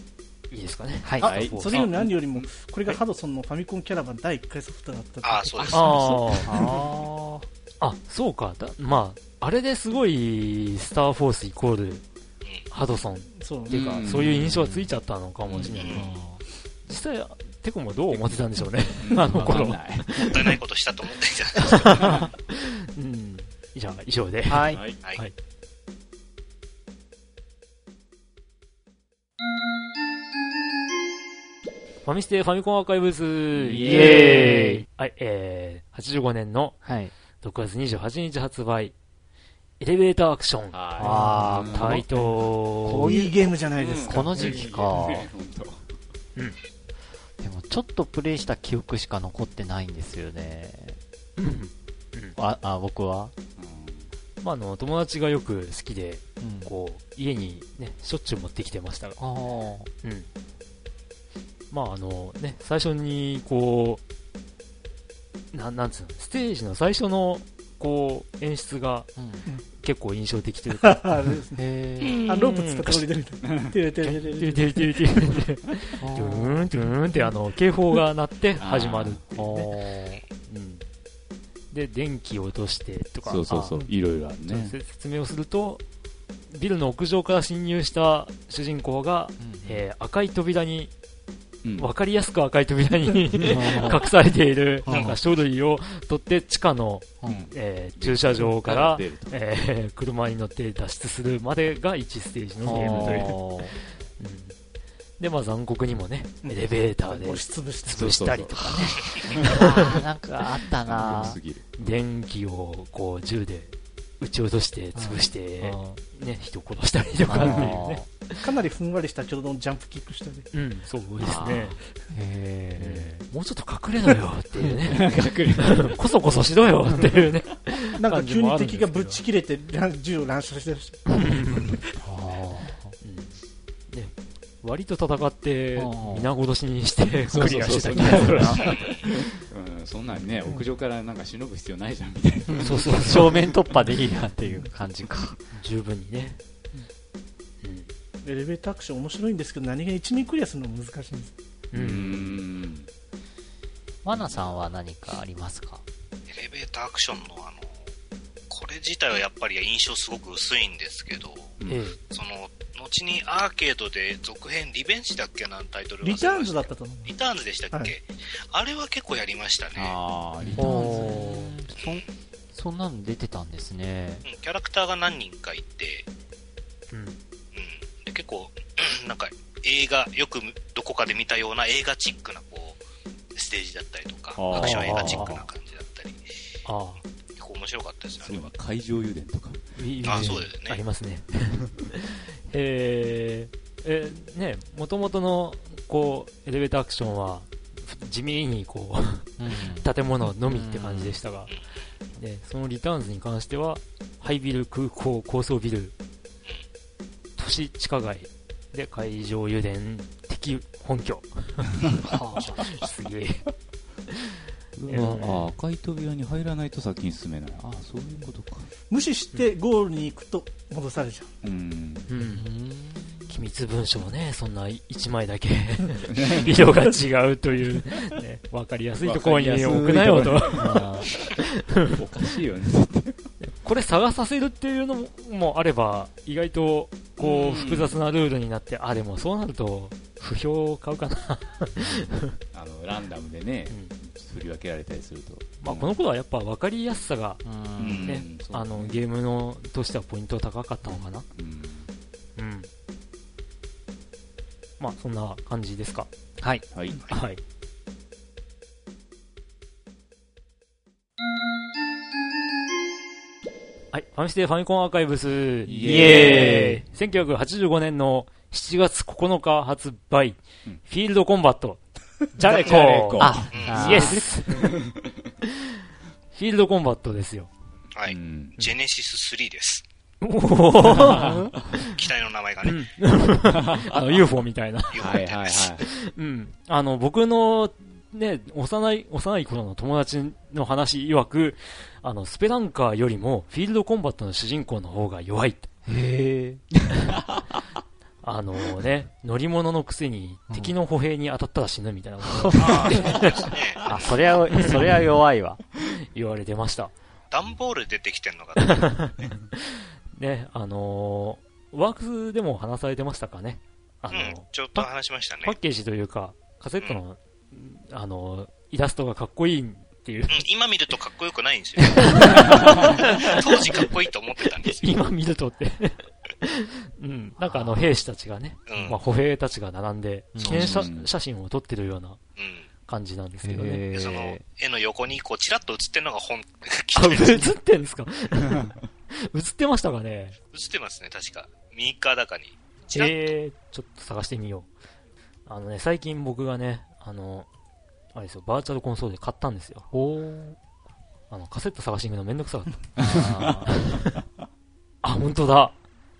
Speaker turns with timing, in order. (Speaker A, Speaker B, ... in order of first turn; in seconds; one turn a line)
Speaker A: 0.5-1.9
Speaker B: 1.0-1.3
Speaker C: 1.2-5.9
Speaker D: 1.2-2.5
Speaker E: 5.2-5.9
Speaker A: 5.7-6.5
Speaker D: 5.7-6.7
Speaker B: 6.4-7.4
Speaker A: 7.8-12.0
Speaker A: 12.7-16.2
Speaker C: 13.4-13.8
Speaker D: 13.7-14.6
Speaker B: 14.3-14.9
Speaker D: 15.5-16.0
Speaker E: 15.8-16.0
Speaker B: 15.9-16.4
Speaker A: 16.9-20.6
Speaker D: 19.0-20.3
Speaker E: 20.2-22.2
Speaker A: 21.6-25.3
Speaker B: 24.5-24.8
Speaker D: 24.7-25.0
Speaker A: 32.0-36.8
Speaker D: 33.6-34.6
Speaker B: 33.8-34.8
Speaker B: 36.8-37.1
Speaker A: 37.4-38.9
Speaker A: 39.8-43.1
Speaker D: 40.7-42.0
Speaker B: 41.0-42.1
Speaker C: 42.1-44.4
Speaker B: 42.8-45.3
Speaker D: 43.7-45.9
Speaker B: 47.4-51.0
Speaker A: 51.4-52.4
Speaker B: 52.4-53.3
Speaker D: 53.6-54.1
Speaker A: 54.4-59.2
Speaker B: 56.4-56.7
Speaker B: 59.2-59.9
Speaker A: 61.7-64.0
Speaker A: 65.5-69.1
Speaker B: 69.2-69.5
Speaker A: 69.8-71.1
Speaker C: 70.8-71.6
Speaker B: 71.5-72.2
Speaker E: 72.0-72.4
Speaker A: 72.1-73.1
Speaker C: 72.3-74.9
Speaker D: 73.4-73.7
Speaker A: 74.0-79.7
Speaker B: 76.0-76.7
Speaker D: 78.6-79.3
Speaker B: 79.3-80.2
Speaker A: 80.5-80.8
Speaker A: 81.7-83.8
Speaker D: 83.2-84.8
Speaker A: 84.4-85.8
Speaker A: 86.5-90.9
Speaker B: 89.4-89.8
Speaker D: 91.6-91.9
Speaker A: 91.7-103.5
Speaker B: 93.4-94.0
Speaker B: 94.8-95.2
Speaker B: 97.2-97.5
Speaker D: 97.2-99.4
Speaker B: 102.6-103.7
Speaker D: 102.6-103.4
Speaker A: 104.2-104.5
Speaker A: 105.2-110.0
Speaker C: 106.4-108.1
Speaker D: 107.9-109.9
Speaker B: 109.5-111.4
Speaker D: 110.8-112.0
Speaker A: 111.8-118.1
Speaker B: 114.9-116.0
Speaker B: 117.2-118.0
Speaker C: 118.4-120.5
Speaker A: 120.5-121.8
Speaker D: 121.2-121.8
Speaker B: 122.1-123.2
Speaker A: 122.8-129.2
Speaker D: 124.8-126.0
Speaker C: 128.0-131.5
Speaker A: 131.2-131.8
Speaker B: 132.0-133.0
Speaker A: 133.0-133.3
Speaker A: 133.9-138.8
Speaker B: 135.8-136.3
Speaker D: 137.3-143.4
Speaker E: 138.6-139.0
Speaker B: 142.5-145.4
Speaker A: 142.6-143.5
Speaker A: 145.5-146.4
Speaker A: 147.6-147.9
Speaker C: 148.2-151.3
Speaker A: 151.7-152.4
Speaker D: 151.7-152.9
Speaker B: 154.0-155.8
Speaker E: 156.3-157.7
Speaker E: 158.5-161.6
Speaker D: 161.6-161.8
Speaker A: 161.7-162.0
Speaker E: 162.1-170.0
Speaker C: 166.0-167.1
Speaker D: 169.7-171.6
Speaker A: 170.4-171.1
Speaker B: 170.5-174.2
Speaker E: 171.8-172.1
Speaker E: 174.2-176.1
Speaker A: 176.9-177.2
Speaker E: 177.5-182.8
Speaker E: 183.3-186.2
Speaker D: 184.3-185.4
Speaker A: 184.5-185.4
Speaker A: 186.6-187.0
Speaker E: 187.4-188.5
Speaker D: 188.2-189.8
Speaker A: 189.8-201.5
Speaker E: 190.0-190.8
Speaker B: 190.1-190.4
Speaker B: 199.4-201.2
Speaker A: 202.1-205.9
Speaker A: 207.4-213.4
Speaker B: 212.0-212.6
Speaker D: 214.7-218.7
Speaker A: 214.9-215.5
Speaker C: 218.9-221.3
Speaker D: 221.4-222.1
Speaker A: 222.1-222.5
Speaker B: 222.2-223.4
Speaker A: 223.3-232.0
Speaker D: 226.0-226.7
Speaker D: 229.0-231.3
Speaker B: 230.6-231.1
Speaker D: 231.9-233.3
Speaker A: 233.4-242.3
Speaker D: 237.2-238.0
Speaker D: 242.5-246.0
Speaker A: 245.6-251.3
Speaker B: 247.4-248.2
Speaker D: 247.8-249.0
Speaker D: 251.3-251.9
Speaker A: 252.4-252.7
Speaker A: 254.8-256.1
Speaker B: 256.4-256.6
Speaker D: 256.7-257.1
Speaker A: 257.1-257.4
Speaker A: 263.9-271.8
Speaker B: 265.7-266.8
Speaker D: 265.7-266.7
Speaker A: 272.3-274.8
Speaker D: 272.4-275.1
Speaker B: 273.2-274.3
Speaker E: 273.5-274.0
Speaker A: 276.3-277.5
Speaker E: 277.9-279.8
Speaker D: 278.1-278.6
Speaker A: 280.2-281.9
Speaker B: 280.9-281.5
Speaker D: 281.0-281.3
Speaker E: 281.7-282.9
Speaker A: 282.6-285.1
Speaker D: 283.4-284.3
Speaker E: 284.9-285.8
Speaker D: 284.9-285.8
Speaker A: 285.8-295.7
Speaker B: 295.9-296.7
Speaker D: 297.1-297.4
Speaker A: 298.2-303.5
Speaker B: 300.5-300.7
Speaker B: 302.2-303.0
Speaker E: 302.6-304.1
Speaker D: 302.6-303.9
Speaker B: 303.9-305.6
Speaker A: 304.5-305.1
Speaker A: 306.1-306.9
Speaker E: 307.3-309.0
Speaker A: 308.6-309.6
Speaker A: 310.1-314.9
Speaker E: 314.1-315.5
Speaker A: 315.4-320.4
Speaker E: 320.3-324.9
Speaker A: 321.9-323.9
Speaker A: 324.6-332.2
Speaker B: 327.4-327.9
Speaker E: 328.7-329.0
Speaker B: 330.3-330.9
Speaker D: 330.4-331.1
Speaker E: 332.4-332.7
Speaker A: 332.9-333.8
Speaker B: 333.4-334.4
Speaker E: 333.9-337.6
Speaker A: 336.9-340.4
Speaker D: 338.5-338.7
Speaker E: 340.5-343.2
Speaker A: 342.9-344.7
Speaker A: 345.5-347.5
Speaker A: 348.1-349.9
Speaker B: 349.9-350.6
Speaker A: 351.3-352.9
Speaker B: 353.0-353.7
Speaker D: 353.0-354.2
Speaker A: 353.7-354.1
Speaker A: 355.0-355.8